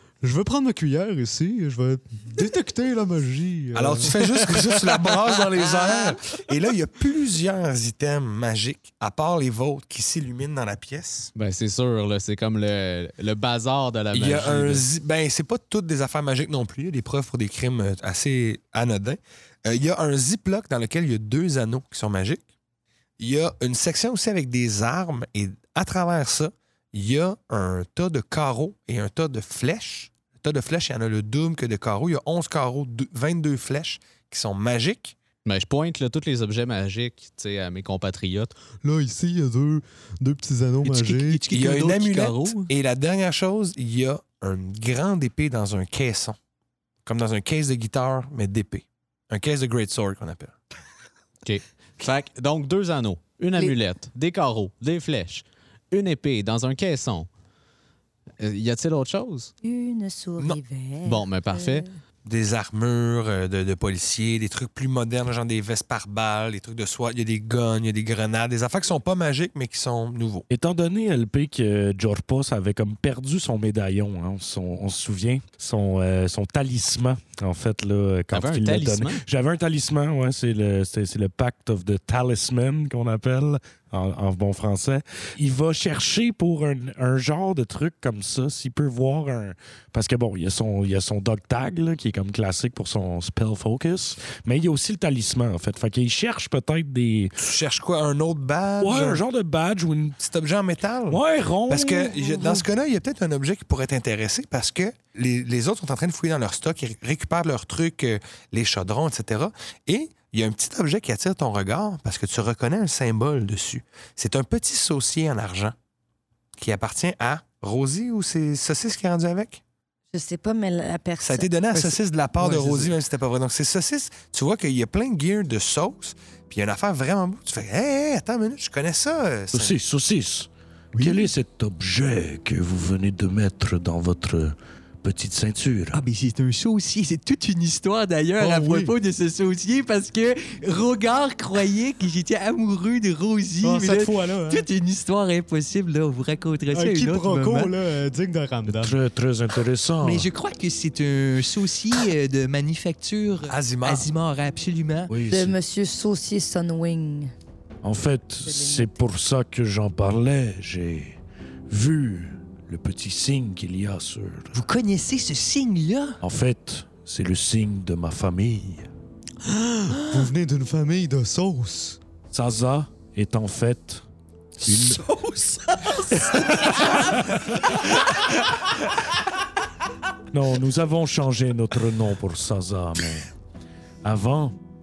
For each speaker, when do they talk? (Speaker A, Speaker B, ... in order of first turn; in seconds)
Speaker A: 0.2-4.8, 38.8-41.4, 138.4-138.9, 143.6-144.7, 146.7-148.9, 169.9-172.0
Speaker B: 3.7-11.3, 14.1-22.4, 23.2-35.1, 41.5-46.4, 47.0-50.5, 62.2-70.5, 97.4-99.2, 100.2-115.7, 116.6-119.6, 121.2-129.7, 153.5-154.1
Speaker C: 11.3-14.8, 35.4-38.5, 51.4-57.3, 58.4-59.5, 61.0-61.9, 78.3-79.2
Speaker D: 40.8-42.7, 122.4-122.9, 130.9-131.3, 135.9-147.7, 150.0-155.1, 164.5-166.2, 174.6-177.2
Speaker E: 59.6-61.9, 120.1-121.7, 155.2-157.3, 158.4-159.1
Speaker F: 70.5-97.4, 98.8-100.2, 101.1-102.7, 129.5-136.0, 148.7-150.3, 155.1-155.6, 157.8-164.5, 166.2-168.9, 172.3-174.0, 174.6-175.0, 176.2-177.2, 180.3-183.3, 184.0-184.6